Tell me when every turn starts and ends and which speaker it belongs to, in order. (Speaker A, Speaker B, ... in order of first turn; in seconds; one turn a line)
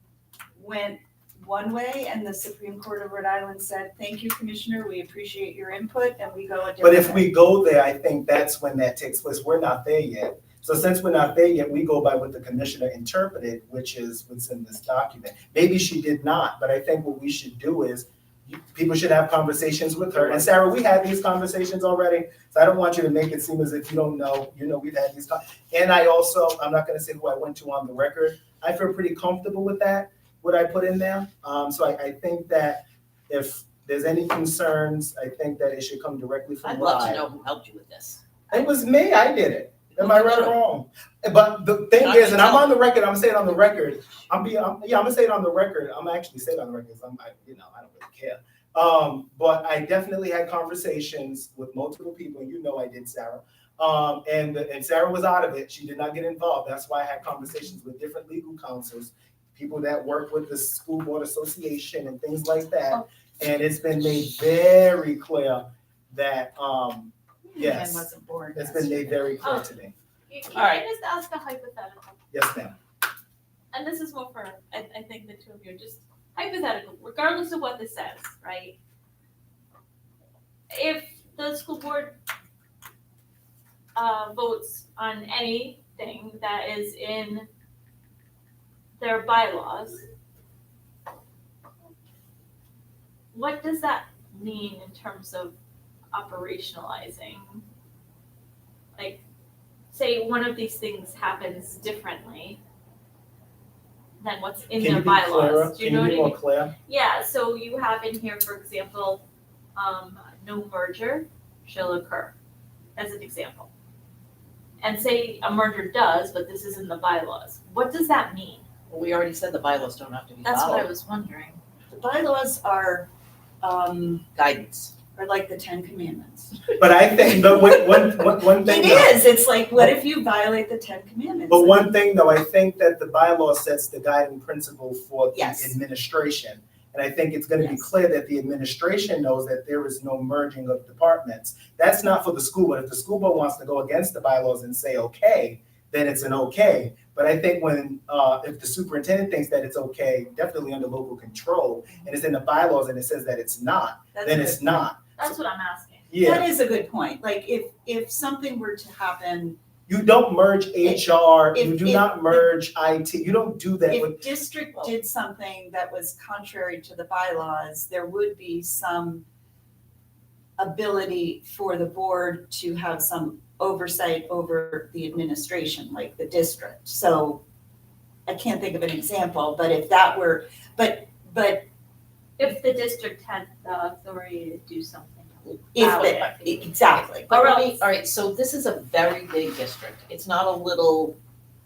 Speaker A: 0.6-7.3
Speaker B: 6.8-37.2
Speaker C: 36.6-38.2
Speaker B: 38.5-69.9
Speaker C: 39.9-40.5
Speaker C: 42.0-42.8
Speaker A: 67.4-69.5
Speaker D: 69.4-69.7
Speaker D: 70.3-72.2
Speaker C: 70.5-70.8
Speaker B: 72.3-72.8
Speaker D: 73.7-78.8
Speaker D: 80.7-82.2
Speaker D: 84.0-87.5
Speaker D: 89.0-90.0
Speaker D: 93.3-95.5
Speaker D: 96.1-97.6
Speaker D: 99.0-99.2
Speaker D: 99.9-102.6
Speaker D: 104.2-109.2
Speaker B: 104.8-106.7
Speaker D: 109.8-112.3
Speaker D: 113.0-113.7
Speaker D: 114.8-118.6
Speaker C: 118.9-120.9
Speaker D: 120.4-121.6
Speaker A: 121.9-123.1
Speaker A: 123.6-124.2
Speaker C: 124.3-124.9
Speaker A: 125.1-126.7
Speaker B: 126.8-129.2
Speaker A: 127.7-131.9
Speaker B: 131.5-155.4
Speaker A: 135.3-135.8
Speaker A: 137.6-137.8
Speaker A: 154.1-154.9
Speaker D: 155.2-156.1
Speaker B: 156.1-156.5
Speaker A: 156.2-159.6
Speaker B: 159.9-164.2
Speaker A: 160.8-162.5
Speaker A: 163.9-169.2
Speaker A: 170.6-177.4
Speaker A: 178.3-181.7
Speaker D: 182.4-187.8
Speaker A: 185.7-187.3
Speaker C: 185.9-186.3
Speaker C: 187.3-191.2